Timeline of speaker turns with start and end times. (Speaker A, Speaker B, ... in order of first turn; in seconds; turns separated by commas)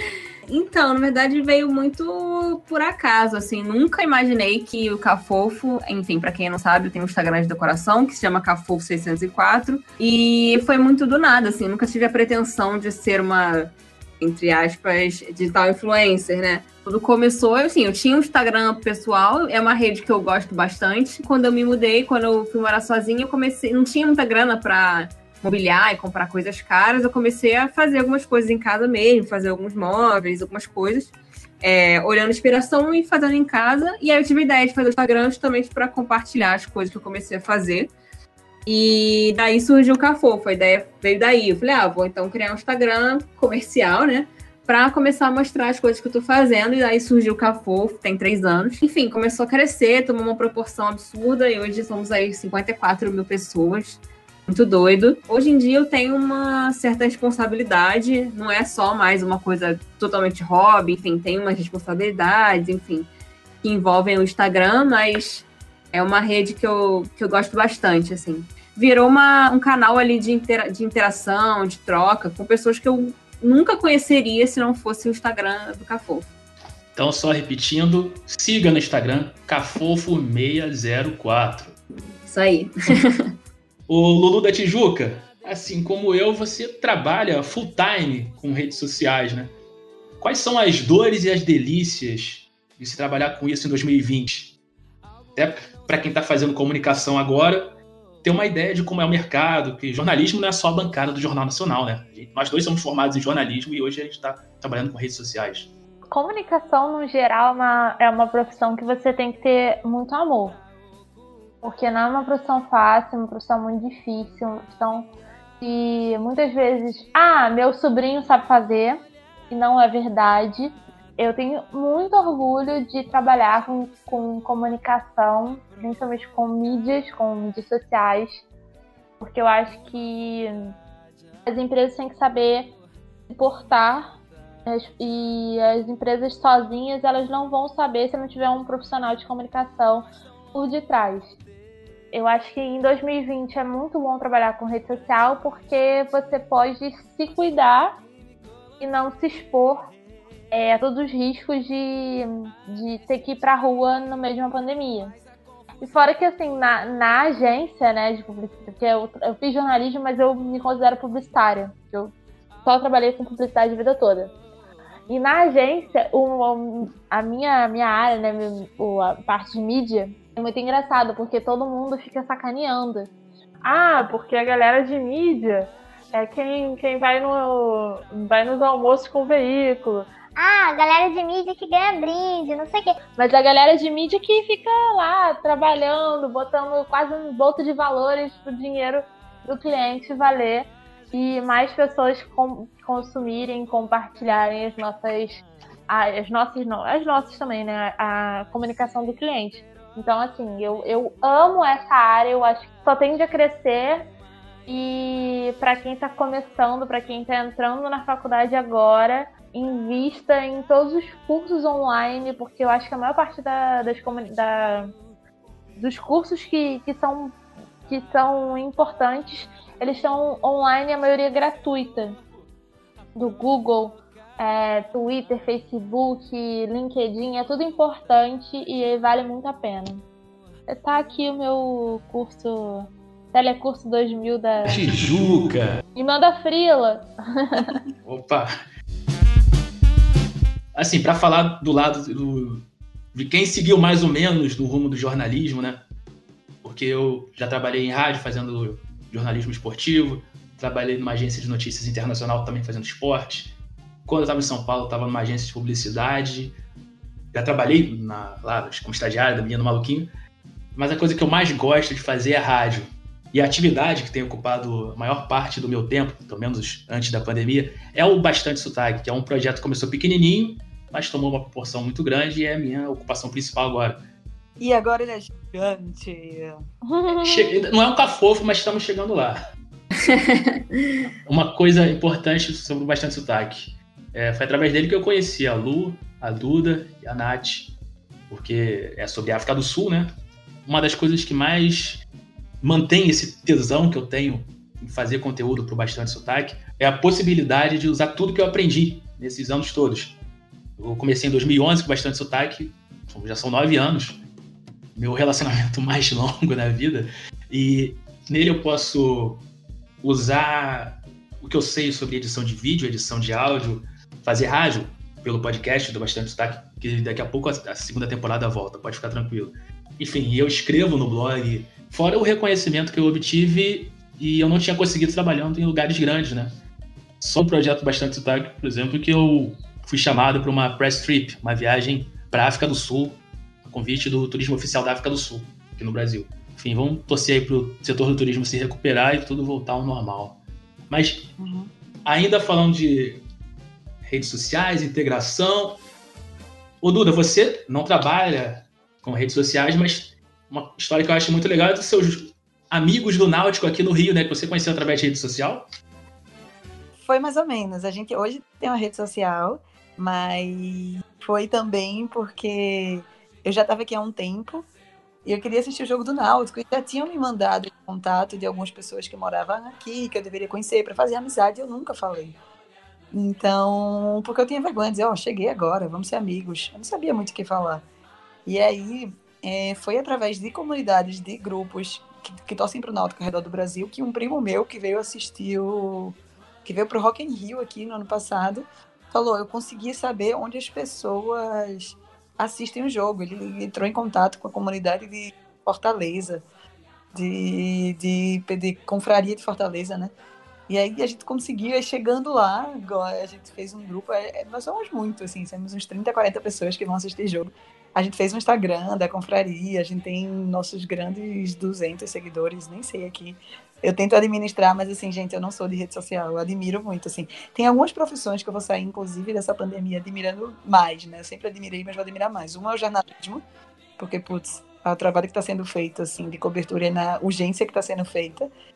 Speaker A: 0.5-37.9, Speaker A: 38.7-63.1, Speaker A: 63.6-76.3, Speaker B: 76.9-81.8, Speaker A: 82.2-83.3, Speaker B: 83.9-89.5, Speaker B: 90.2-94.5, Speaker B: 95.3-105.7, Speaker C: 106.1-110.6, Speaker C: 111.6-115.1, Speaker C: 115.6-128.4, Speaker C: 129.2-130.7, Speaker C: 131.4-132.7, Speaker C: 133.3-141.3, Speaker C: 142.1-148.0, Speaker C: 148.8-149.8, Speaker C: 150.5-155.1, Speaker C: 155.8-162.1, Speaker C: 162.6-164.3, Speaker C: 165.1-173.1, Speaker C: 173.6-180.1, Speaker D: 180.3-182.9, Speaker C: 183.2-204.1, Speaker C: 204.7-214.9, Speaker C: 215.8-222.2, Speaker C: 223.2-230.0, Speaker C: 230.7-234.8, Speaker B: 234.7-235.8, Speaker C: 235.9-237.7, Speaker B: 238.0-238.5, Speaker B: 240.7-245.8, Speaker B: 246.6-253.5, Speaker B: 254.1-256.6, Speaker B: 257.3-260.1, Speaker B: 260.7-274.0, Speaker E: 274.6-276.6, Speaker C: 276.9-277.5, Speaker B: 277.2-279.4, Speaker A: 279.9-281.0, Speaker B: 281.3-287.7, Speaker B: 288.3-290.1, Speaker B: 290.6-292.0, Speaker B: 292.6-300.2, Speaker B: 300.8-304.2, Speaker B: 304.9-309.4, Speaker B: 310.0-326.5, Speaker B: 327.2-341.3, Speaker E: 341.4-341.7, Speaker B: 342.1-343.2, Speaker B: 344.0-345.8, Speaker B: 346.8-355.7, Speaker E: 357.0-364.7, Speaker E: 365.2-372.4, Speaker E: 373.1-377.8, Speaker E: 378.4-396.4, Speaker E: 397.1-400.1, Speaker E: 400.7-423.4, Speaker E: 424.0-428.5